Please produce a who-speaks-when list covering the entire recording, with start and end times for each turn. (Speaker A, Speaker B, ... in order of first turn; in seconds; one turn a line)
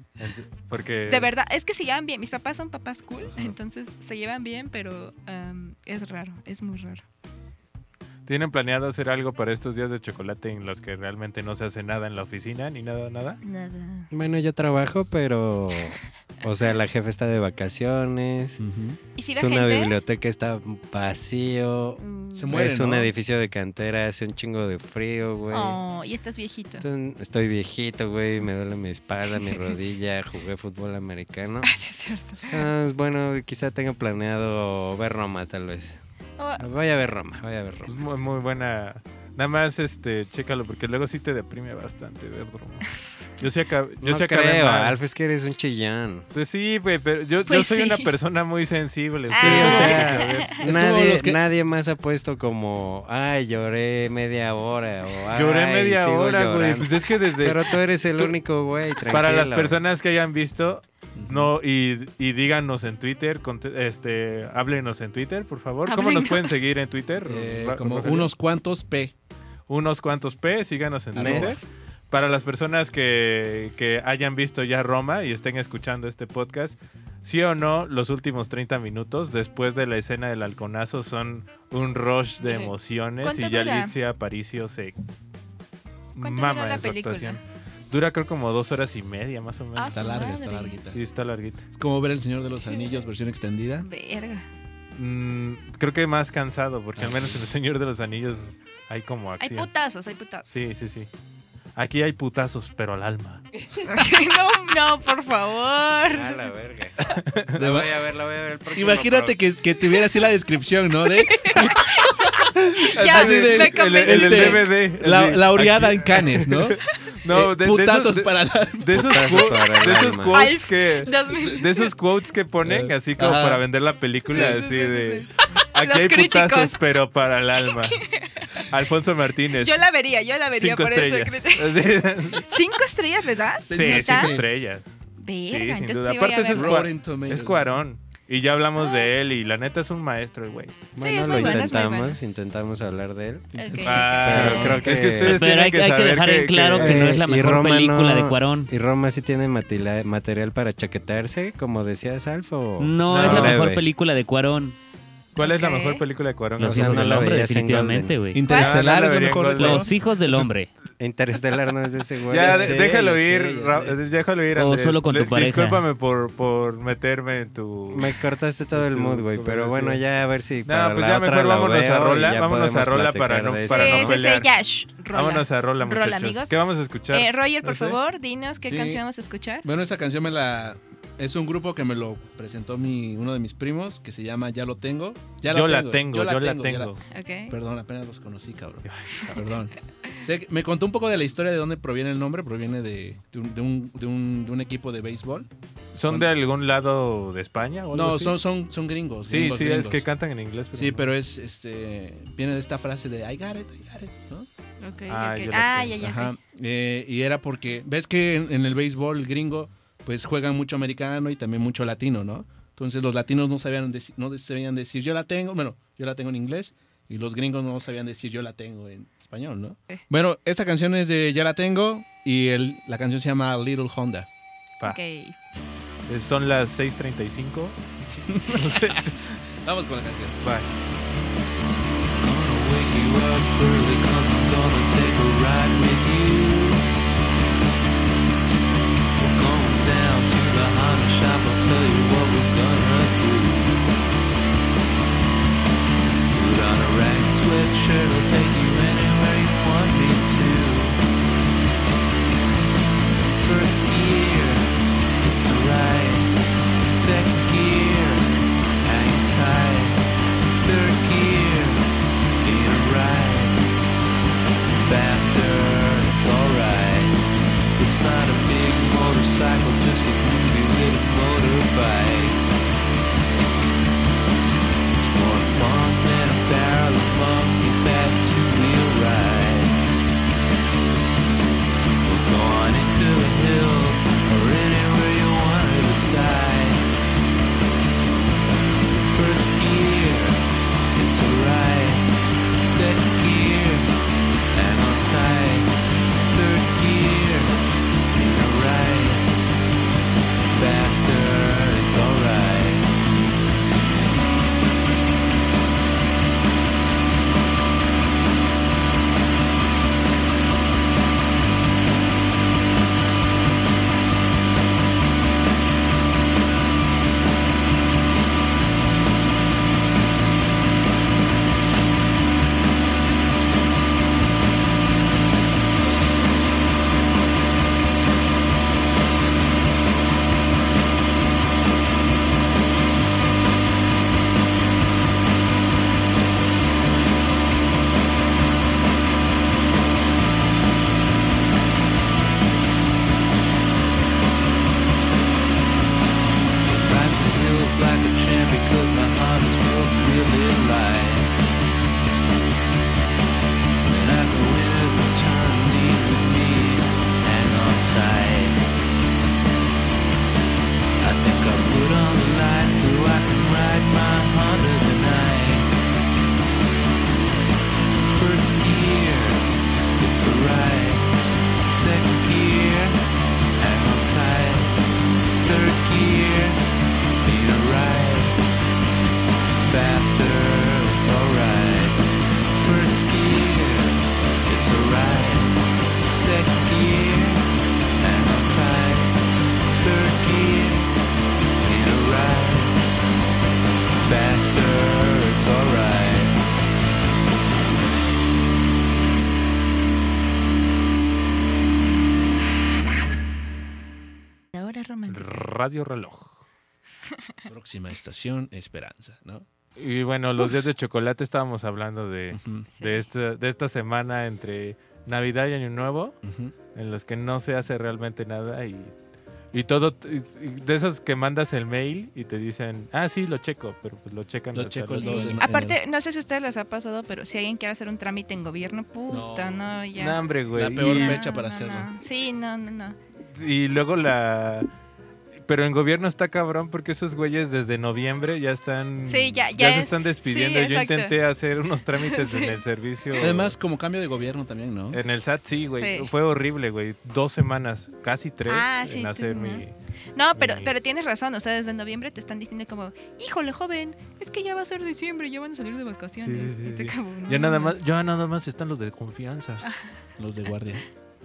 Speaker A: 0.2-1.3
Speaker B: 1.1-7.0
Speaker A: 8.2-13.4
Speaker B: 13.4-14.1
Speaker C: 14.1-18.6
Speaker D: 18.6-19.0
Speaker B: 19.1-20.0
Speaker C: 19.3-25.8
Speaker B: 22.0-22.6
Speaker D: 22.3-23.1
Speaker B: 25.5-26.8
Speaker C: 26.8-31.7
Speaker B: 29.4-29.7
Speaker B: 31.6-32.6
Speaker C: 32.5-35.9
Speaker B: 36.4-36.6
Speaker C: 36.6-38.0
Speaker A: 37.9-42.8
Speaker A: 43.4-45.0
Speaker C: 44.0-46.3
Speaker A: 46.3-50.6
Speaker B: 47.5-48.1
Speaker B: 49.3-50.5
Speaker C: 49.3-59.8
Speaker D: 49.5-49.9
Speaker D: 50.6-51.4
Speaker A: 55.3-58.3
Speaker A: 59.1-68.3
Speaker D: 61.1-61.5
Speaker B: 65.9-66.6
Speaker D: 67.2-69.1
Speaker A: 69.7-85.0
Speaker D: 71.1-71.6
Speaker C: 71.1-71.7
Speaker B: 82.4-83.9
Speaker A: 86.2-90.1
Speaker B: 86.2-87.4
Speaker B: 89.8-90.8
Speaker D: 89.9-91.0
Speaker A: 90.9-91.6
Speaker D: 91.7-93.9
Speaker B: 92.6-93.1
Speaker B: 93.8-94.4
Speaker A: 94.9-99.7
Speaker D: 97.0-97.5
Speaker B: 99.4-100.5
Speaker A: 100.5-101.1
Speaker A: 101.8-103.4
Speaker B: 103.8-106.4
Speaker C: 106.1-107.0
Speaker A: 107.1-107.6
Speaker C: 107.5-109.4
Speaker D: 107.6-107.9
Speaker D: 108.7-112.1
Speaker B: 111.0-114.7
Speaker A: 112.5-128.0
Speaker D: 113.0-119.3
Speaker C: 118.9-120.4
Speaker B: 120.3-121.9
Speaker D: 122.6-123.6
Speaker D: 124.3-124.6
Speaker B: 124.3-126.7
Speaker B: 127.9-128.6
Speaker A: 128.6-129.8
Speaker B: 129.6-134.4
Speaker A: 130.6-132.5
Speaker D: 133.7-134.4
Speaker A: 133.7-134.9
Speaker B: 135.2-136.8
Speaker A: 135.5-140.8
Speaker D: 136.5-137.8
Speaker B: 138.8-139.1
Speaker C: 140.9-143.5
Speaker B: 141.0-142.2
Speaker D: 143.5-144.8
Speaker B: 143.5-144.8
Speaker A: 143.8-147.2
Speaker C: 144.2-145.4
Speaker E: 145.2-148.7
Speaker C: 146.8-153.8
Speaker E: 152.8-154.8
Speaker A: 153.1-153.7
Speaker A: 155.3-157.2
Speaker B: 155.4-156.0
Speaker E: 156.6-158.5
Speaker C: 156.6-158.2
Speaker D: 158.3-159.9
Speaker A: 158.5-160.5
Speaker B: 158.5-158.8
Speaker E: 159.6-160.7
Speaker C: 161.0-162.9
Speaker A: 162.3-168.1
Speaker D: 162.3-164.0
Speaker E: 164.5-165.8
Speaker C: 167.9-174.2
Speaker A: 168.7-170.0
Speaker A: 170.6-174.5
Speaker B: 173.7-176.5
Speaker A: 175.1-178.0
Speaker B: 177.1-179.7
Speaker D: 178.6-179.0
Speaker D: 179.6-186.9
Speaker A: 185.5-187.0
Speaker B: 187.1-187.6
Speaker D: 187.5-195.5
Speaker A: 188.8-189.3
Speaker A: 195.9-198.4
Speaker D: 197.9-200.0
Speaker A: 199.3-201.1
Speaker D: 200.7-204.5
Speaker B: 204.8-206.3
Speaker A: 205.1-206.0
Speaker D: 206.0-224.3
Speaker B: 224.8-225.3
Speaker A: 226.1-227.8
Speaker D: 228.3-230.4
Speaker A: 228.4-229.4
Speaker A: 230.4-230.7
Speaker F: 232.1-236.9
Speaker F: 239.2-243.9
Speaker F: 246.3-251.0
Speaker F: 253.4-256.3
Speaker F: 256.9-260.0
Speaker F: 260.6-261.9
Speaker F: 262.4-263.6
Speaker F: 264.7-267.2
Speaker F: 267.8-272.4
Speaker F: 274.9-279.8
Speaker F: 282.0-286.9
Speaker F: 289.0-292.1
Speaker F: 292.6-293.9
Speaker F: 294.5-295.7
Speaker F: 296.3-299.3
Speaker F: 300.5-302.9
Speaker F: 346.8-351.3
Speaker F: 353.8-358.6
Speaker F: 361.0-365.7
Speaker F: 368.1-371.1
Speaker F: 371.7-373.0
Speaker F: 373.6-374.8
Speaker F: 375.4-376.6
Speaker F: 377.2-378.4
Speaker F: 379.6-382.0
Speaker F: 382.6-385.5
Speaker F: 386.1-387.5
Speaker F: 388.0-389.1
Speaker F: 389.8-390.9
Speaker F: 391.6-392.8
Speaker F: 394.0-396.3
Speaker B: 404.5-405.5
Speaker A: 405.1-406.4
Speaker D: 407.5-409.4
Speaker A: 409.8-416.2
Speaker D: 412.3-412.7
Speaker B: 412.7-413.0
Speaker D: 416.2-416.5
Speaker A: 416.7-418.9
Speaker A: 419.5-425.4
Speaker D: 424.5-425.8
Speaker B: 424.9-430.2
Speaker D: 429.1-429.6
Speaker A: 429.9-431.2
Speaker D: 430.5-431.9
Speaker B: 430.8-433.0
Speaker A: 433.3-434.7
Speaker A: 435.4-443.6
Speaker B: 439.1-441.1
Speaker B: 442.0-442.6
Speaker D: 443.2-445.0
Speaker A: 444.9-449.7
Speaker B: 445.8-446.1
Speaker B: 448.5-457.8
Speaker A: 450.4-450.7
Speaker A: 456.2-459.6
Speaker B: 459.6-460.0
Speaker D: 460.2-460.8